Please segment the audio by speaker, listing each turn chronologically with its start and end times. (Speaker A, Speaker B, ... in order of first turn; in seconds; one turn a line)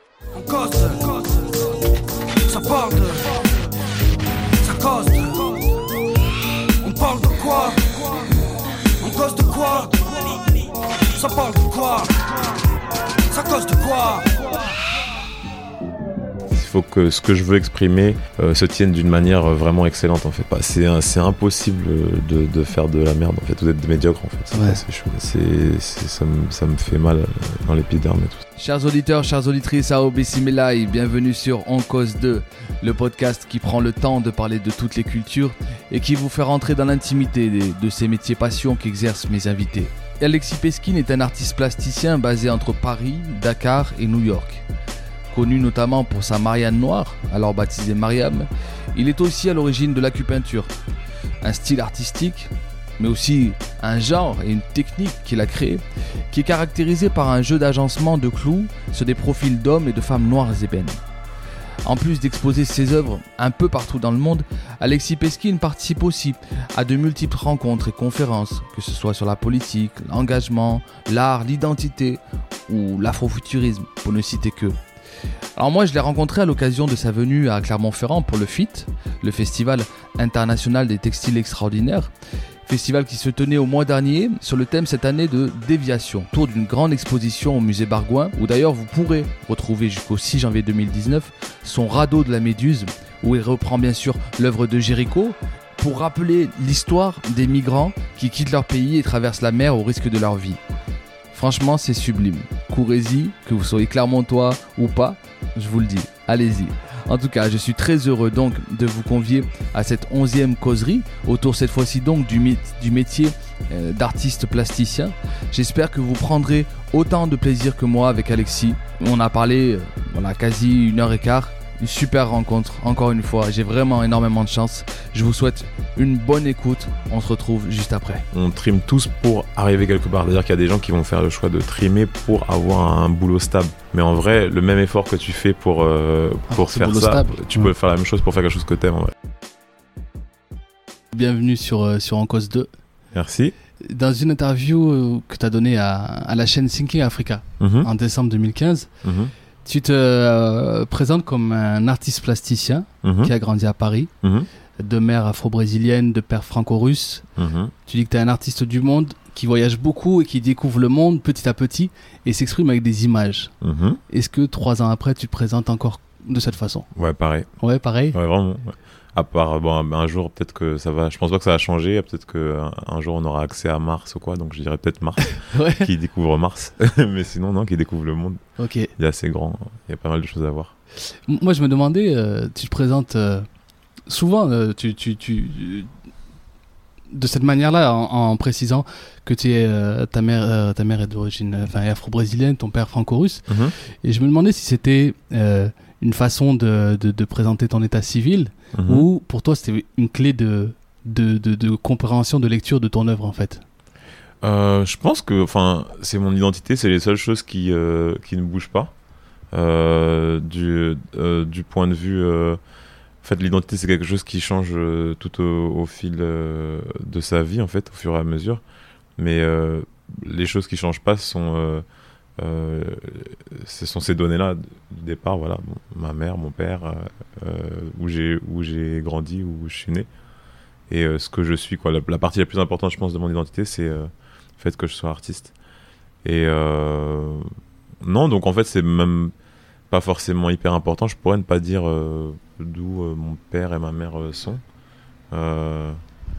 Speaker A: 0.3-1.8
Speaker A: 2.5-3.7
Speaker A: 4.6-5.8
Speaker A: 6.8-8.3
Speaker A: 9.0-10.5
Speaker A: 11.1-12.3
Speaker A: 13.3-14.7
Speaker B: 16.5-28.4
Speaker C: 24.5-24.8
Speaker C: 28.6-44.6
Speaker C: 45.3-50.7
Speaker C: 51.4-61.0
Speaker C: 61.8-74.8
Speaker C: 75.5-82.1
Speaker C: 82.7-100.6
Speaker C: 101.3-128.2
Speaker B: 128.3-139.1
Speaker C: 136.5-137.7
Speaker C: 141.1-142.7
Speaker B: 143.1-143.5
Speaker C: 143.8-148.9
Speaker B: 147.6-147.9
Speaker B: 149.0-149.3
Speaker C: 149.6-154.1
Speaker B: 153.0-153.3
Speaker B: 154.2-154.5
Speaker C: 154.8-157.2
Speaker B: 157.4-157.7
Speaker C: 157.9-163.5
Speaker B: 163.6-164.0
Speaker C: 164.1-166.9
Speaker B: 166.9-167.5
Speaker C: 167.6-168.2
Speaker B: 168.1-178.4
Speaker C: 175.2-175.9
Speaker C: 178.6-178.9
Speaker B: 178.9-180.7
Speaker C: 181.1-183.5
Speaker C: 184.1-185.9
Speaker C: 187.1-203.6
Speaker B: 193.5-193.7
Speaker B: 198.7-199.1
Speaker B: 204.4-208.9
Speaker B: 209.5-212.6
Speaker B: 213.2-218.6
Speaker B: 219.2-221.8
Speaker B: 222.4-230.1
Speaker B: 230.9-235.5
Speaker B: 236.2-237.5
Speaker B: 238.0-239.3
Speaker B: 239.9-244.6
Speaker B: 245.3-246.0